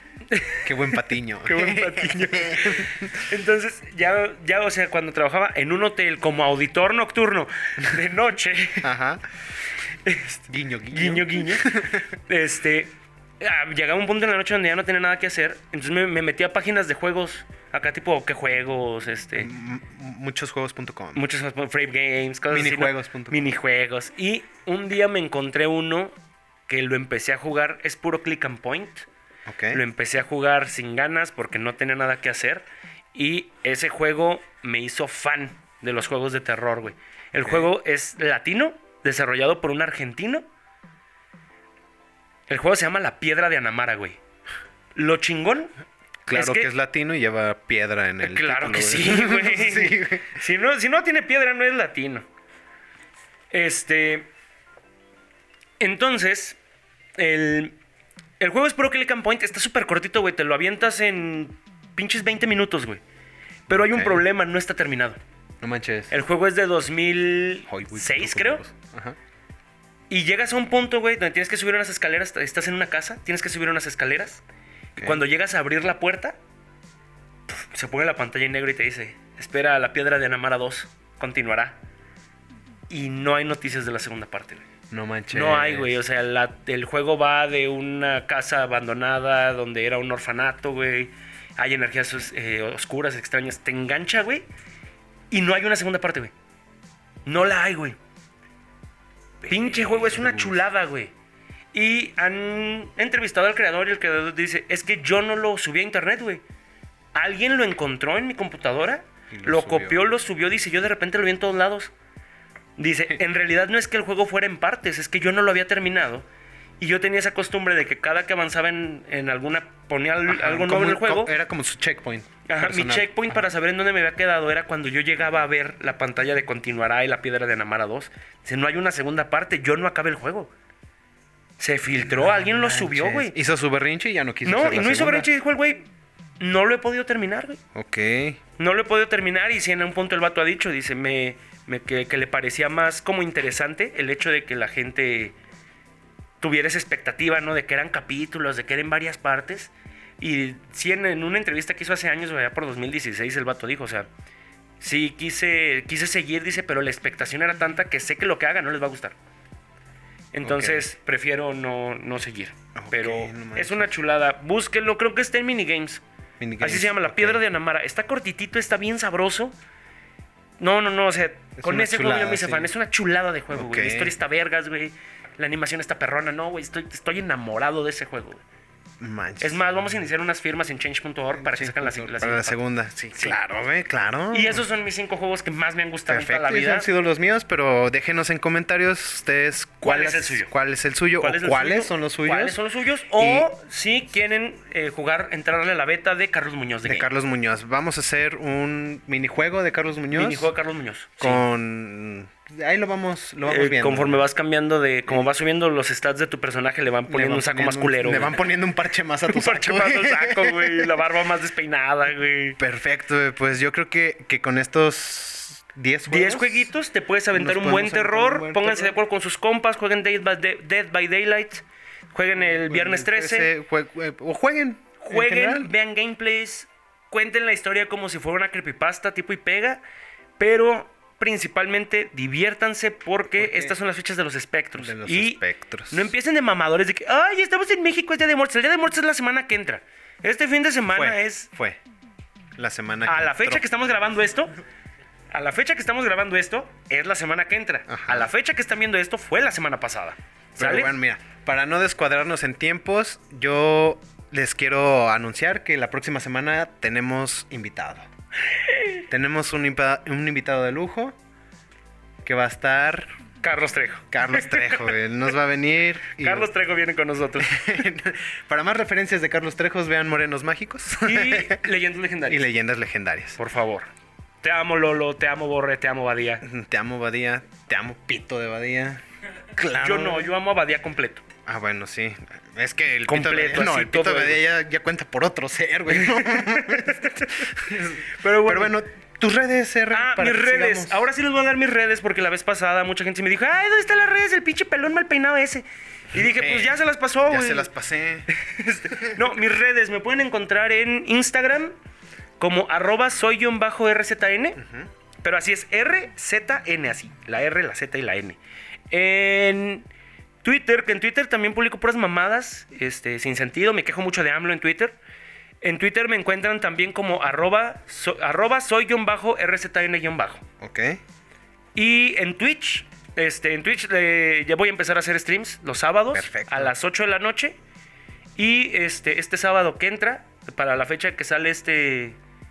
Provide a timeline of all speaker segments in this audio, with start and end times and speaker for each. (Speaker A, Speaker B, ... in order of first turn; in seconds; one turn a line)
Speaker A: 0.3-8.9
Speaker B: 0.6-3.2
Speaker B: 8.8-9.2
Speaker A: 10.0-19.5
Speaker B: 10.5-12.1
Speaker B: 19.4-21.2
Speaker A: 21.1-26.1
Speaker B: 22.5-23.5
Speaker A: 26.7-29.1
Speaker B: 29.4-29.8
Speaker A: 29.7-40.5
Speaker B: 37.4-37.7
Speaker A: 42.5-44.2
Speaker A: 44.9-45.7
Speaker B: 46.3-50.4
Speaker A: 46.3-46.7
Speaker A: 48.2-52.2
Speaker A: 53.5-54.3
Speaker A: 55.8-56.6
Speaker A: 57.2-57.7
Speaker A: 58.4-63.0
Speaker B: 63.7-64.2
Speaker A: 63.7-65.2
Speaker B: 65.6-66.1
Speaker A: 66.1-68.6
Speaker B: 67.7-69.2
Speaker A: 70.1-74.4
Speaker B: 75.0-75.2
Speaker A: 75.0-76.4
Speaker A: 77.5-81.8
Speaker A: 82.9-84.7
Speaker B: 84.9-86.0
Speaker A: 85.3-94.5
Speaker A: 95.3-96.3
Speaker A: 97.2-98.0
Speaker A: 99.4-101.1
Speaker B: 99.6-100.7
Speaker A: 101.7-106.4
Speaker A: 107.1-111.9
Speaker B: 109.3-110.1
Speaker A: 112.8-116.3
Speaker A: 116.8-121.3
Speaker B: 120.3-123.4
Speaker A: 122.5-130.5
Speaker A: 131.6-133.4
Speaker B: 132.0-135.3
Speaker A: 134.4-135.9
Speaker A: 136.4-137.6
Speaker B: 137.7-138.4
Speaker A: 138.6-145.4
Speaker A: 146.4-154.1
Speaker A: 154.8-159.2
Speaker A: 160.3-166.0
Speaker B: 160.4-160.8
Speaker B: 162.8-163.9
Speaker B: 166.4-167.4
Speaker A: 166.6-169.5
Speaker A: 170.6-178.4
Speaker B: 171.6-172.7
Speaker B: 173.5-174.1
Speaker B: 179.0-180.0
Speaker A: 179.4-182.6
Speaker B: 181.3-184.6
Speaker A: 184.3-186.9
Speaker B: 186.1-192.6
Speaker A: 189.8-190.5
Speaker A: 191.2-197.1
Speaker B: 193.2-193.5
Speaker B: 196.8-200.5
Speaker A: 200.1-201.4
Speaker B: 201.2-204.3
Speaker A: 203.5-208.4
Speaker B: 207.1-211.0
Speaker A: 209.3-212.6
Speaker B: 212.6-216.7
Speaker A: 216.1-223.5
Speaker B: 217.3-219.0
Speaker B: 222.3-225.7
Speaker A: 225.0-229.8
Speaker A: 230.4-241.5
Speaker B: 233.3-233.8
Speaker B: 234.7-236.1
Speaker B: 240.9-241.8
Speaker B: 242.6-243.7
Speaker A: 243.1-244.5
Speaker A: 245.3-250.9
Speaker B: 247.9-248.3
Speaker B: 250.6-258.1
Speaker A: 258.7-259.0
Speaker B: 259.1-261.2
Speaker B: 262.2-263.1
Speaker A: 263.4-264.9
Speaker B: 264.1-266.5
Speaker A: 266.2-267.6
Speaker B: 267.4-271.7
Speaker A: 271.0-272.4
Speaker B: 272.3-273.4
Speaker A: 273.4-273.9
Speaker A: 274.4-276.4
Speaker B: 276.4-280.3
Speaker A: 279.8-281.2
Speaker B: 281.4-291.1
Speaker A: 283.1-284.4
Speaker A: 285.9-288.7
Speaker A: 289.9-297.7
Speaker B: 296.1-298.3
Speaker A: 298.3-301.7
Speaker A: 302.4-304.6
Speaker B: 304.6-304.9
Speaker A: 305.2-308.4
Speaker A: 308.9-309.9
Speaker A: 310.4-315.0
Speaker A: 315.6-320.4
Speaker B: 320.6-321.0
Speaker A: 321.7-327.6
Speaker B: 326.1-326.7
Speaker A: 328.4-332.2